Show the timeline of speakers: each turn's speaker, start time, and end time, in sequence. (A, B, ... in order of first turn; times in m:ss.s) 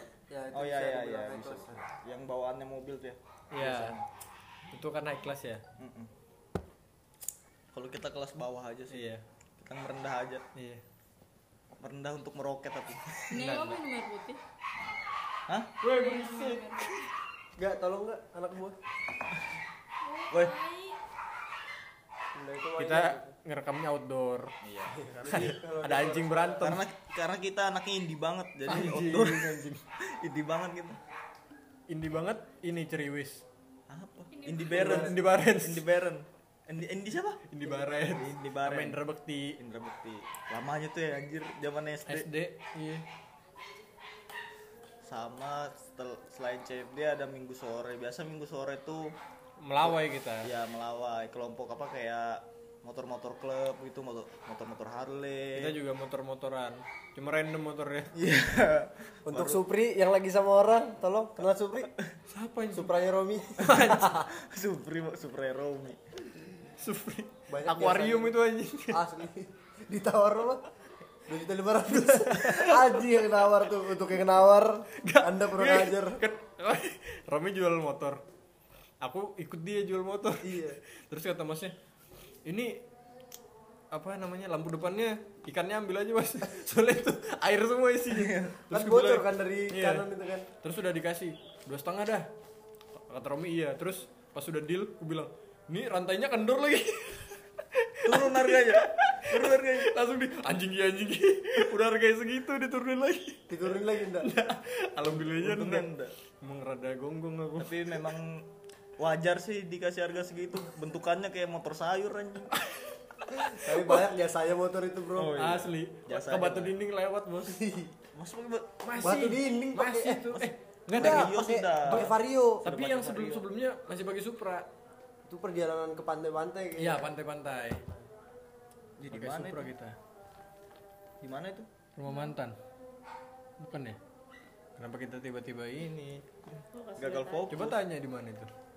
0:00.3-0:01.8 A
0:00.5-0:04.0 B
0:03.5-0:04.0 C
0:04.7-0:05.6 C
0:05.8-0:06.1 B
0:07.7-0:10.4 B
0:08.9-0:09.2 C
0:10.6-0:10.8 C
0:11.7-0:13.5 B
0:13.3-0:14.4 D
0:13.4-0:13.8 C
0:15.5-0:15.8 B
0:15.8-0:17.1 C
0:15.8-0:17.1 D
0:17.6-0:18.8 A
0:20.0-0:21.0 D
0:20.3-0:20.6 B
0:22.4-0:23.4 A
0:22.8-0:24.5 C
0:24.6-0:25.0 B
0:24.9-0:26.7 A
0:25.2-0:26.8 C
0:26.6-0:31.0 B
0:28.7-0:29.8 C
0:31.9-0:33.4 C
0:33.9-0:39.0 B
0:34.3-0:35.0 D
0:34.7-0:35.9 C
0:34.7-0:35.1 A
0:37.5-0:39.6 C
0:39.6-0:42.3 B
0:42.1-0:43.0 C
0:45.0-0:49.2 B
0:49.6-0:50.5 C
0:49.8-0:55.8 B
0:55.6-0:58.1 C
0:58.1-0:59.6 B
0:59.3-1:01.9 A
1:02.3-1:02.9 C
1:02.7-1:04.1 A
1:03.6-1:04.3 C
1:04.0-1:06.0 B
1:06.8-1:09.0 C
1:07.5-1:10.7 A
1:11.3-1:16.2 A
1:11.9-1:13.0 C
1:15.0-1:18.2 C
1:19.0-1:21.7 C
1:20.4-1:20.8 A
1:22.4-1:22.8 C
1:23.9-1:30.1 C
1:28.1-1:28.6 B
1:28.7-1:30.5 A
1:30.6-1:32.3 C
1:33.1-1:45.9 C
1:38.0-1:40.0 B
1:43.5-1:44.3 A
1:45.1-1:46.1 B
1:46.4-1:48.0 C
1:47.6-1:52.5 B
1:52.5-1:54.2 C
1:53.3-1:55.4 A
1:55.2-1:56.8 B
1:55.3-1:57.6 C
1:57.4-1:57.9 A
1:58.1-1:58.8 B
1:58.8-2:02.1 C
1:59.0-2:02.7 A
2:00.9-2:03.4 B
2:02.6-2:04.7 C
2:05.3-2:07.1 A
2:06.8-2:07.8 C
2:09.0-2:09.7 B
2:09.1-2:10.0 C
2:11.2-2:11.7 B
2:12.0-2:12.6 C
2:12.1-2:12.4 D
2:13.6-2:14.0 C
2:14.8-2:16.2 C
2:16.5-2:17.8 B
2:16.7-2:17.5 D
2:17.5-2:18.5 C